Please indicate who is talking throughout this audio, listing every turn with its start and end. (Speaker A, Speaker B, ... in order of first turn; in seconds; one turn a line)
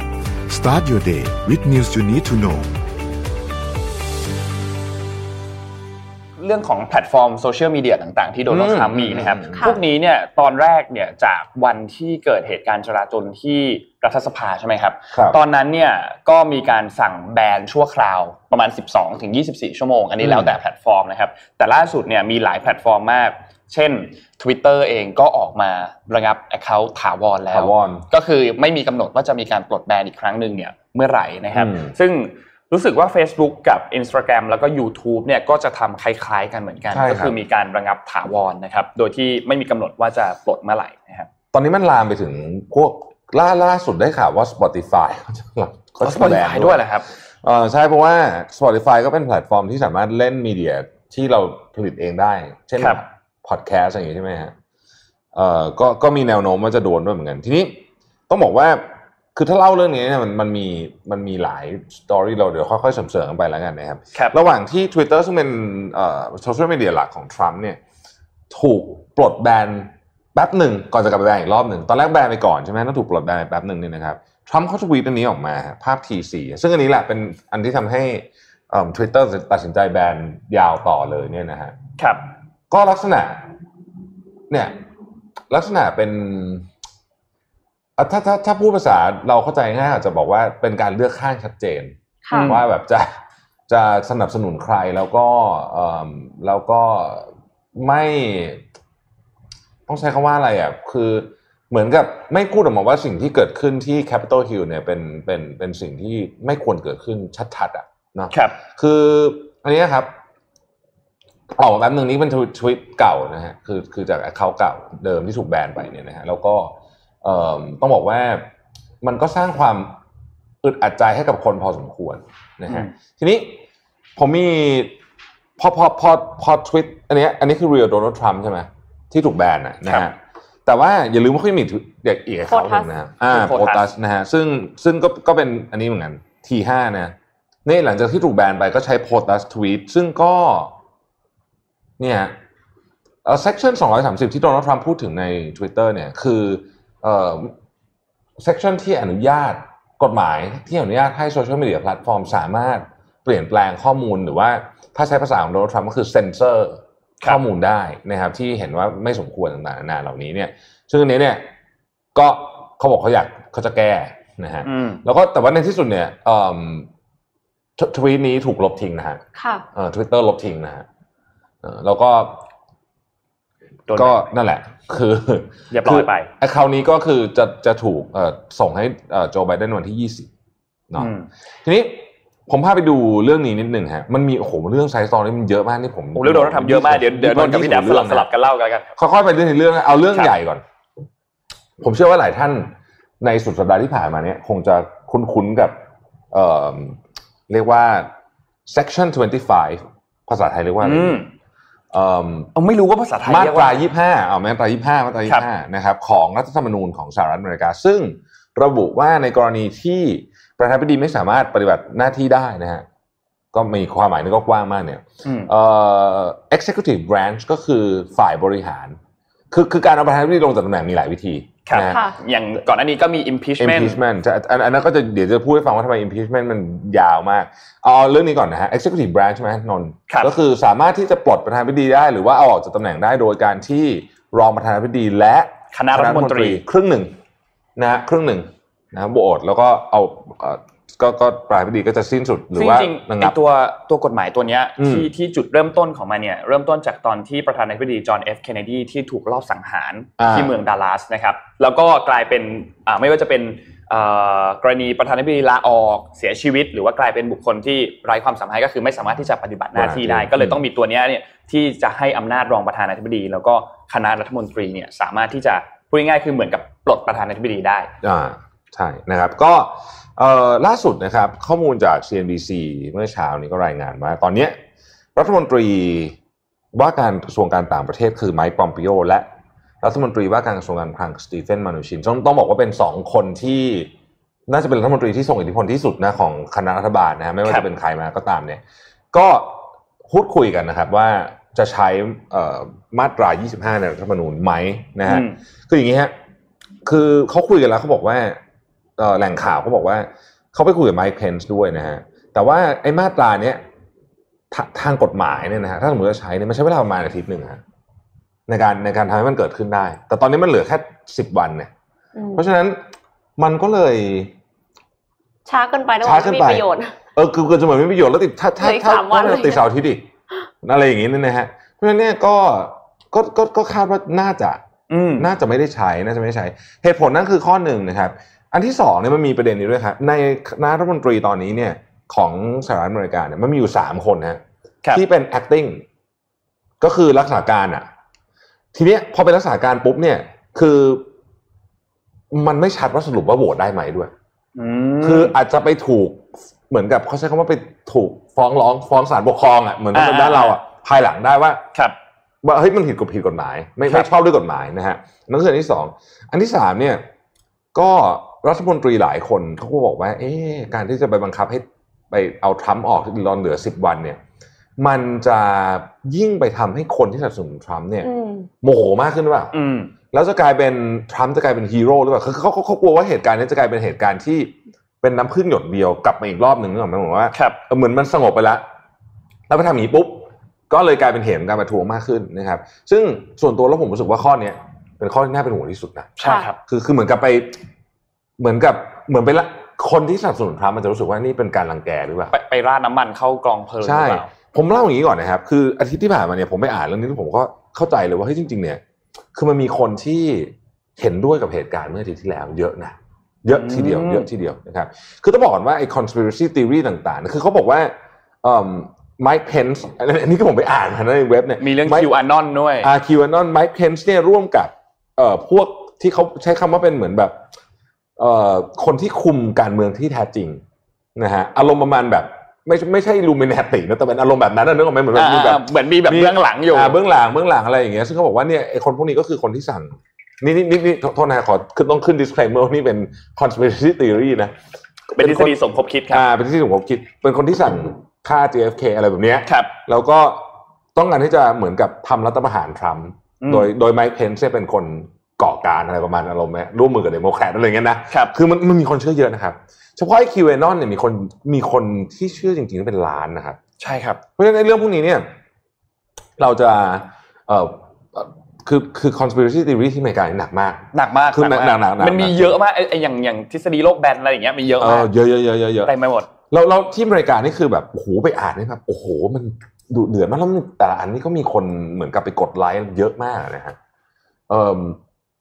Speaker A: 0.5-2.7
Speaker B: 6.4-41.3
Speaker C: 8.5-9.7
Speaker D: 9.5-9.8
Speaker C: 15.1-15.4
Speaker C: 20.2-20.6
Speaker C: 27.5-28.1
Speaker C: 31.5-31.9
Speaker C: 36.9-37.4
Speaker C: 41.5-46.9
Speaker B: 46.0-47.1
Speaker C: 47.4-54.5
Speaker B: 52.8-53.0
Speaker C: 55.3-58.8
Speaker C: 59.3-67.8
Speaker C: 68.5-81.7
Speaker B: 82.0-82.2
Speaker C: 82.7-83.4
Speaker C: 84.5-84.8
Speaker C: 85.5-86.7
Speaker C: 88.0-98.6
Speaker D: 92.2-92.5
Speaker B: 92.3-92.6
Speaker C: 99.9-110.1
Speaker B: 108.3-108.6
Speaker C: 111.5-118.5
Speaker C: 119.0-120.0
Speaker C: 120.6-123.6
Speaker C: 124.2-125.0
Speaker C: 125.6-140.7
Speaker B: 129.8-130.1
Speaker D: 132.5-132.9
Speaker B: 133.3-133.9
Speaker C: 142.0-142.3
Speaker C: 143.2-147.5
Speaker C: 148.4-161.4
Speaker C: 162.1-166.9
Speaker B: 164.6-165.0
Speaker C: 167.8-169.2
Speaker D: 169.3-169.6
Speaker C: 169.7-170.8
Speaker C: 171.6-172.4
Speaker B: 173.9-174.3
Speaker C: 173.9-180.3
Speaker B: 175.7-176.3
Speaker B: 180.9-181.3
Speaker C: 181.6-188.3
Speaker B: 186.1-188.9
Speaker C: 189.0-190.6
Speaker B: 190.1-190.4
Speaker C: 191.8-195.8
Speaker C: 196.3-197.0
Speaker C: 197.5-198.1
Speaker C: 198.7-201.2
Speaker B: 200.8-201.3
Speaker C: 201.9-202.5
Speaker B: 202.5-203.8
Speaker C: 203.2-212.8
Speaker C: 213.5-218.9
Speaker B: 215.2-215.5
Speaker C: 219.5-222.0
Speaker B: 221.6-224.0
Speaker D: 221.8-222.1
Speaker C: 223.6-237.1
Speaker B: 230.1-230.3
Speaker B: 235.7-236.6
Speaker C: 237.8-243.3
Speaker B: 242.5-267.9
Speaker C: 244.8-245.1
Speaker C: 250.2-250.5
Speaker C: 259.7-260.6
Speaker C: 268.0-274.6
Speaker C: 275.1-276.1
Speaker C: 276.7-279.3
Speaker C: 279.8-283.9
Speaker C: 284.5-288.6
Speaker C: 289.1-296.1
Speaker B: 295.0-295.4
Speaker C: 296.8-298.4
Speaker C: 299.0-303.6
Speaker C: 304.5-307.6
Speaker C: 308.5-311.7
Speaker D: 312.1-312.4
Speaker C: 312.3-312.8
Speaker C: 313.4-314.3
Speaker D: 315.4-316.9
Speaker C: 316.0-320.1
Speaker D: 318.6-319.6
Speaker C: 320.6-324.6
Speaker B: 324.9-325.3
Speaker C: 325.2-334.4
Speaker C: 334.9-335.8
Speaker C: 336.8-337.9
Speaker C: 338.7-341.0
Speaker C: 342.3-344.1
Speaker B: 344.6-345.4
Speaker C: 345.0-351.6
Speaker B: 349.9-350.6
Speaker C: 352.4-357.0
Speaker C: 357.7-364.2
Speaker C: 364.8-368.1
Speaker D: 368.0-368.5
Speaker C: 368.6-369.5
Speaker B: 369.5-369.9
Speaker C: 370.1-378.6
Speaker B: 377.3-377.6
Speaker C: 379.5-387.6
Speaker B: 386.2-386.6
Speaker D: 386.2-386.5
Speaker C: 388.4-392.3
Speaker B: 392.3-394.3
Speaker C: 393.8-398.8
Speaker C: 399.3-412.1
Speaker B: 403.5-404.3
Speaker B: 411.6-412.9
Speaker C: 412.8-417.4
Speaker C: 418.2-420.6
Speaker C: 421.1-434.5
Speaker B: 425.1-427.0
Speaker C: 435.1-435.5
Speaker B: 435.1-436.3
Speaker C: 436.1-453.6
Speaker B: 439.4-439.7
Speaker B: 443.4-443.7
Speaker B: 448.1-448.3
Speaker B: 453.8-454.2
Speaker C: 454.4-455.2
Speaker C: 456.4-462.6
Speaker B: 460.9-465.1
Speaker C: 464.8-465.9
Speaker B: 465.8-466.3
Speaker C: 466.5-473.8
Speaker C: 474.5-475.0